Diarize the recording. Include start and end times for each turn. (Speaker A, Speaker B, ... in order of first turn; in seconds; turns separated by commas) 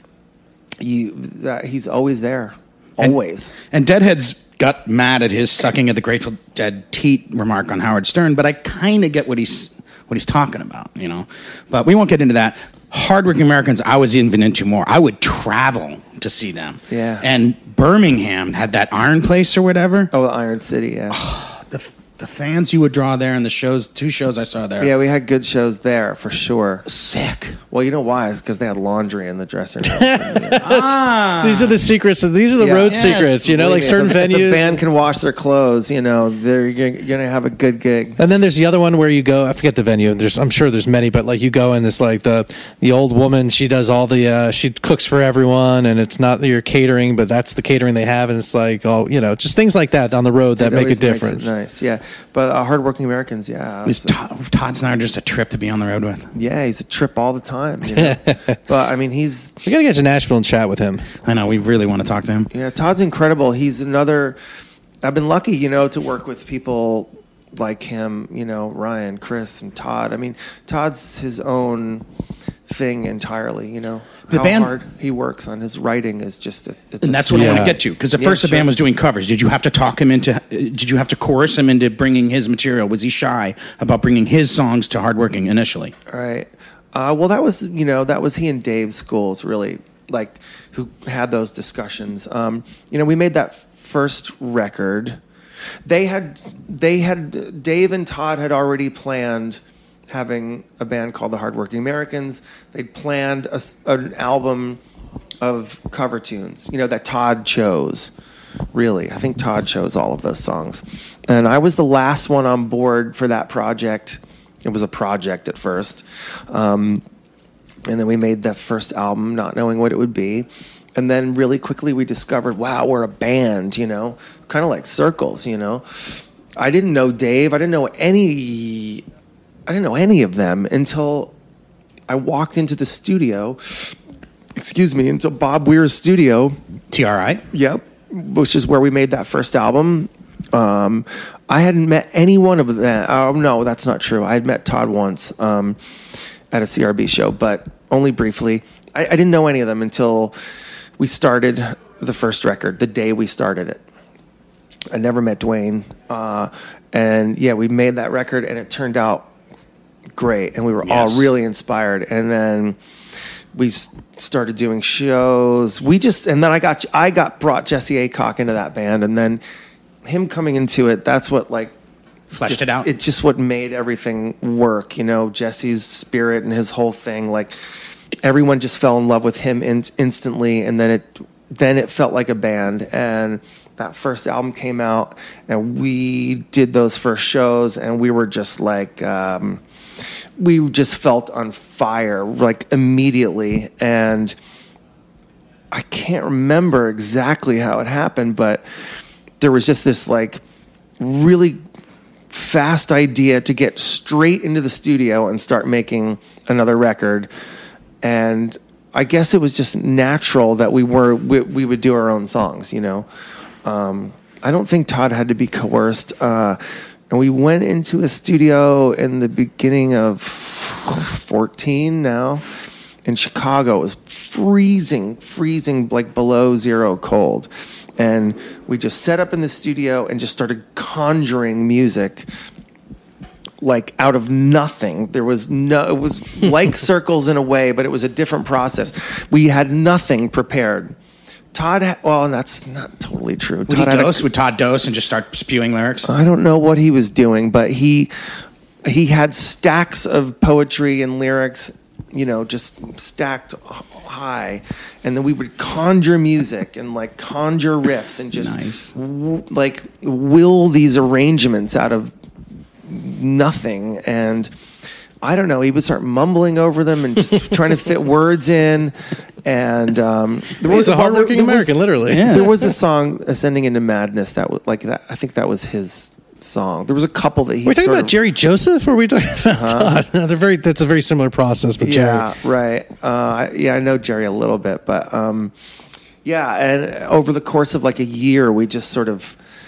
Speaker A: 0.8-3.5, Speaker B: 3.7-20.1, Speaker A: 16.9-17.2, Speaker A: 20.1-21.2, Speaker B: 21.1-24.9, Speaker A: 24.8-26.9, Speaker B: 26.9-27.6, Speaker A: 27.7-30.6, Speaker C: 29.9-34.8, Speaker B: 30.6-31.8, Speaker A: 32.6-38.2, Speaker B: 32.9-33.5, Speaker C: 38.2-51.5, Speaker A: 50.6-54.1, Speaker B: 53.9-56.3, Speaker A: 56.3-59.6, Speaker C: 57.9-58.6, Speaker C: 59.6-61.1, Speaker B: 61.2-62.5, Speaker A: 62.5-64.4, Speaker A: 65.0-72.0, Speaker A: 72.7-78.7, Speaker B: 74.3-74.7, Speaker B: 77.0-85.9, Speaker C: 77.3-77.8, Speaker A: 86.1-95.2, Speaker A: 95.8-104.8, Speaker A: 105.4-108.1, Speaker A: 108.7-117.0, Speaker A: 117.8-129.0, Speaker A: 129.7-131.3, Speaker A: 132.1-134.0, Speaker A: 134.6-136.6, Speaker B: 136.9-137.4, Speaker A: 137.5-150.3, Speaker A: 151.0-153.8, Speaker A: 154.9-159.3, Speaker A: 160.2-162.8, Speaker B: 160.8-161.3, Speaker A: 163.5-169.4, Speaker A: 170.0-171.7, Speaker A: 172.3-189.6, Speaker B: 172.3-172.9, Speaker A: 190.4-194.3, Speaker A: 195.7-198.6, Speaker A: 199.4-200.4, Speaker A: 201.0-201.6, Speaker A: 202.3-207.3, Speaker A: 208.0-213.1, Speaker A: 213.6-222.4, Speaker A: 223.0-232.3, Speaker A: 233.6-240.9, Speaker A: 241.5-244.2, Speaker B: 243.7-246.1, Speaker A: 246.0-248.1, Speaker A: 248.8-262.1, Speaker B: 258.3-258.9, Speaker A: 262.9-264.5, Speaker A: 265.2-278.1, Speaker C: 270.6-272.7, Speaker B: 272.1-272.5, Speaker C: 277.6-282.3, Speaker A: 279.5-280.0, Speaker A: 281.8-285.5, Speaker A: 286.2-289.4